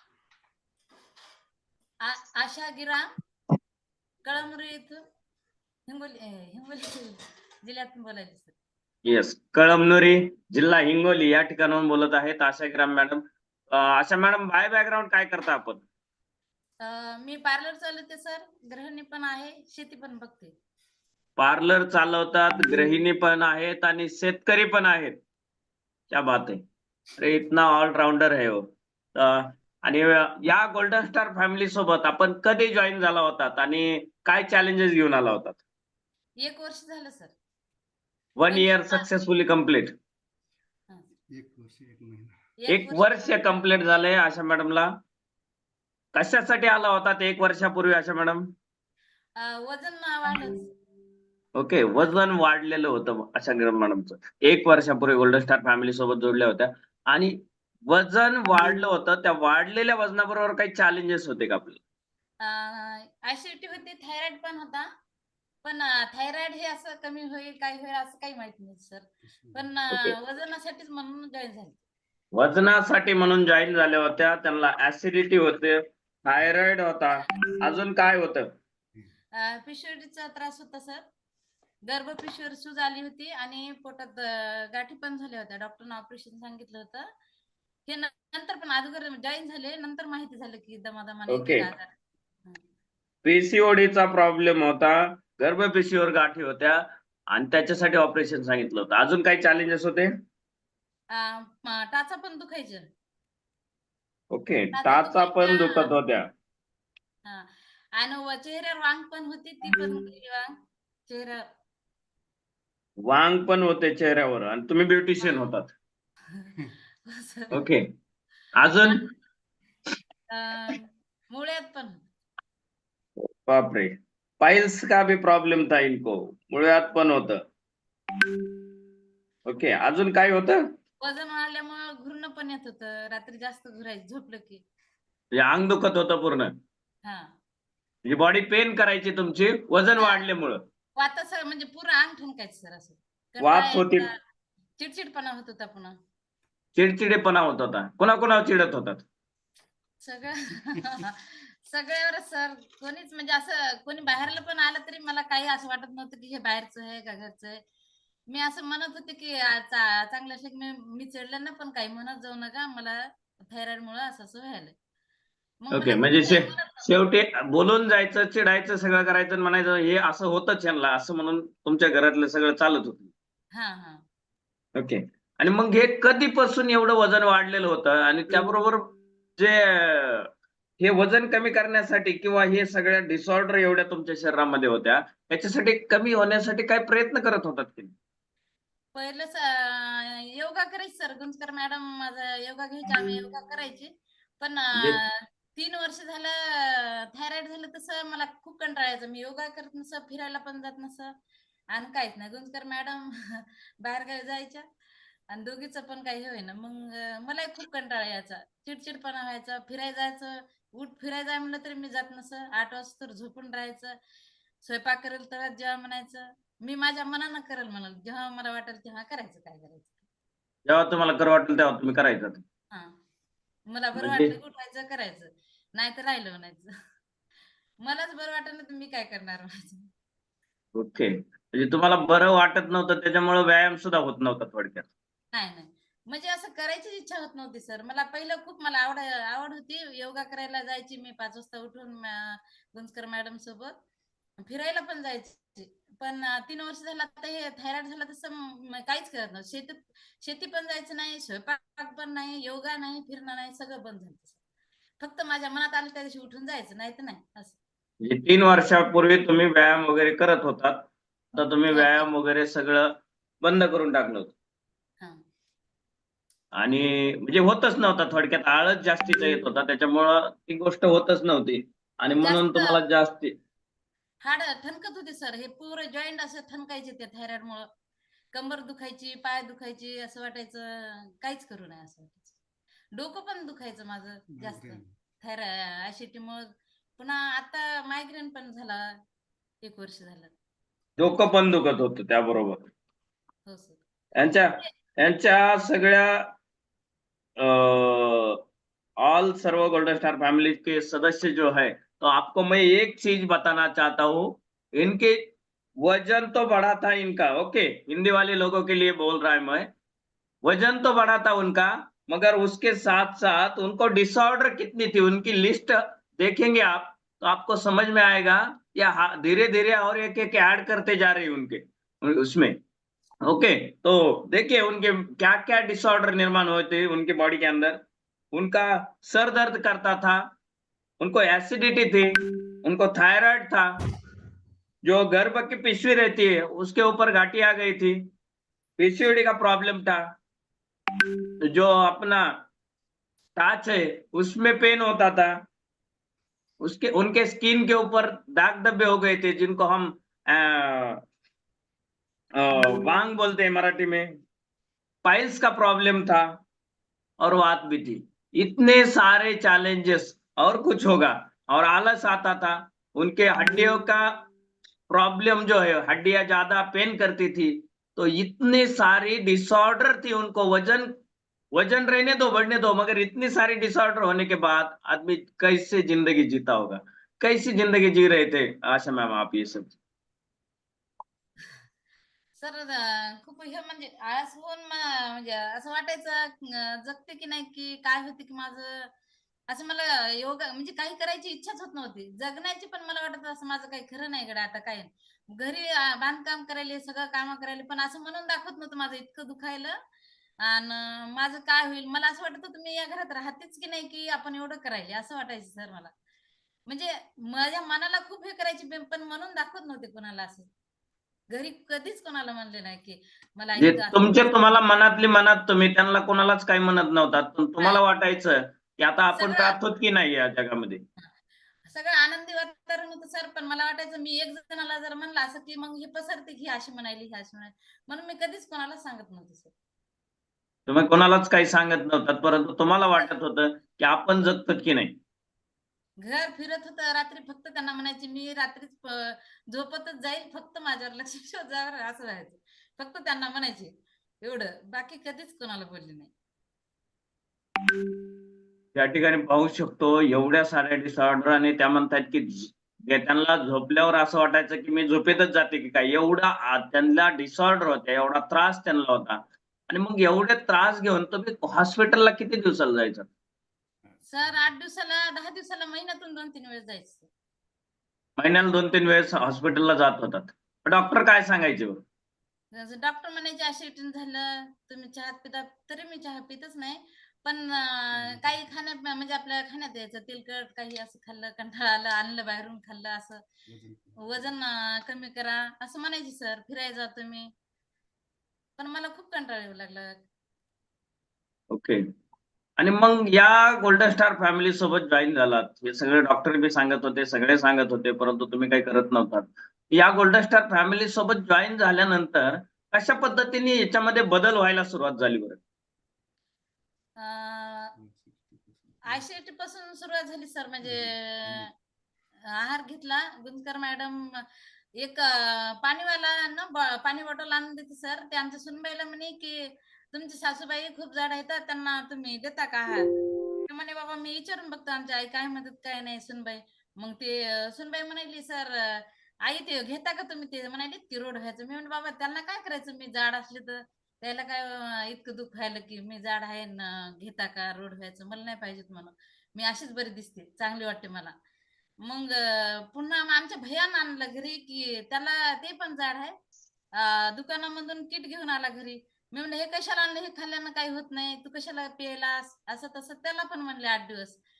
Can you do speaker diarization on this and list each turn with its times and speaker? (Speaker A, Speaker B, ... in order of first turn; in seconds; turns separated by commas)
Speaker A: 2.0-3.1, Speaker A: 4.2-5.0, Speaker A: 5.9-8.5, Speaker B: 9.0-15.8, Speaker A: 16.8-20.5, Speaker B: 21.4-25.2, Speaker B: 26.1-26.6, Speaker B: 27.2-35.6, Speaker A: 36.4-37.3, Speaker B: 38.4-39.9, Speaker A: 38.5-39.0, Speaker C: 41.3-42.4, Speaker A: 42.6-44.0, Speaker B: 42.7-44.9, Speaker B: 46.1-48.4, Speaker A: 49.4-50.7, Speaker B: 51.5-61.8, Speaker A: 62.4-64.9, Speaker A: 65.6-71.8, Speaker C: 69.2-69.7, Speaker B: 72.3-78.5, Speaker A: 79.3-81.0, Speaker A: 81.8-87.1, Speaker A: 87.8-91.9, Speaker B: 91.3-91.7, Speaker B: 93.2-100.1, Speaker A: 101.1-102.9, Speaker B: 104.3-106.3, Speaker A: 104.7-105.9, Speaker A: 107.2-110.5, Speaker A: 111.1-111.5, Speaker B: 113.0-115.7, Speaker A: 115.2-115.5, Speaker A: 116.3-117.7, Speaker B: 117.5-117.8, Speaker B: 118.5-119.0, Speaker A: 120.3-122.0, Speaker B: 123.4-127.4, Speaker B: 129.5-130.6, Speaker A: 131.0-134.6, Speaker B: 135.3-136.5, Speaker A: 137.0-137.3, Speaker B: 138.0-140.6, Speaker A: 140.0-140.2, Speaker A: 140.9-144.2, Speaker B: 143.4-144.1, Speaker A: 144.8-146.0, Speaker B: 146.8-149.0, Speaker A: 150.0-157.6, Speaker A: 158.3-164.7, Speaker A: 165.6-166.9, Speaker B: 165.7-173.1, Speaker A: 173.5-174.0, Speaker B: 174.8-180.3, Speaker B: 180.8-187.9, Speaker A: 188.9-201.1, Speaker B: 194.7-195.0, Speaker A: 201.7-204.6, Speaker A: 205.3-214.0, Speaker A: 214.6-220.0, Speaker B: 220.7-222.4, Speaker A: 222.7-223.0, Speaker A: 223.7-226.7, Speaker B: 223.9-224.3, Speaker A: 227.8-229.9, Speaker B: 230.7-234.9, Speaker A: 235.3-243.8, Speaker A: 244.4-254.3, Speaker A: 255.0-257.6, Speaker B: 258.0-264.3, Speaker A: 261.7-262.1, Speaker B: 266.6-273.3, Speaker A: 272.2-272.8, Speaker A: 274.2-277.7, Speaker A: 278.3-282.3, Speaker A: 282.9-289.0, Speaker C: 284.3-284.9, Speaker A: 289.6-290.3, Speaker B: 291.0-292.7, Speaker A: 293.4-294.7, Speaker B: 294.1-296.3, Speaker B: 297.4-298.4, Speaker B: 299.0-309.7, Speaker B: 310.4-322.6, Speaker B: 323.2-327.8, Speaker B: 328.3-330.2, Speaker B: 331.0-333.7, Speaker B: 334.8-338.0, Speaker B: 338.8-340.1, Speaker B: 341.4-342.3, Speaker B: 343.4-345.3, Speaker B: 346.6-351.0, Speaker B: 352.4-354.2, Speaker B: 355.0-356.2, Speaker B: 357.2-364.1, Speaker B: 364.9-370.9, Speaker B: 371.5-379.7, Speaker A: 382.4-388.9, Speaker A: 389.5-399.7, Speaker A: 400.4-405.9, Speaker A: 406.6-410.5, Speaker A: 411.3-414.6, Speaker B: 413.6-420.8, Speaker A: 419.1-419.6, Speaker A: 421.7-429.5, Speaker B: 430.7-434.9, Speaker A: 436.0-446.1, Speaker B: 448.7-463.1, Speaker C: 463.8-464.5, Speaker A: 464.1-467.1, Speaker B: 468.2-471.8, Speaker A: 472.5-483.2, Speaker C: 477.9-478.5, Speaker C: 483.5-484.4, Speaker A: 484.0-487.3, Speaker A: 488.6-490.0, Speaker B: 491.5-491.8, Speaker B: 492.6-505.4, Speaker A: 507.0-507.7, Speaker C: 507.8-509.1, Speaker A: 508.9-511.5, Speaker C: 510.6-511.5, Speaker A: 512.3-514.3, Speaker A: 514.8-522.9, Speaker A: 523.5-541.1, Speaker A: 541.8-546.1, Speaker A: 546.7-554.2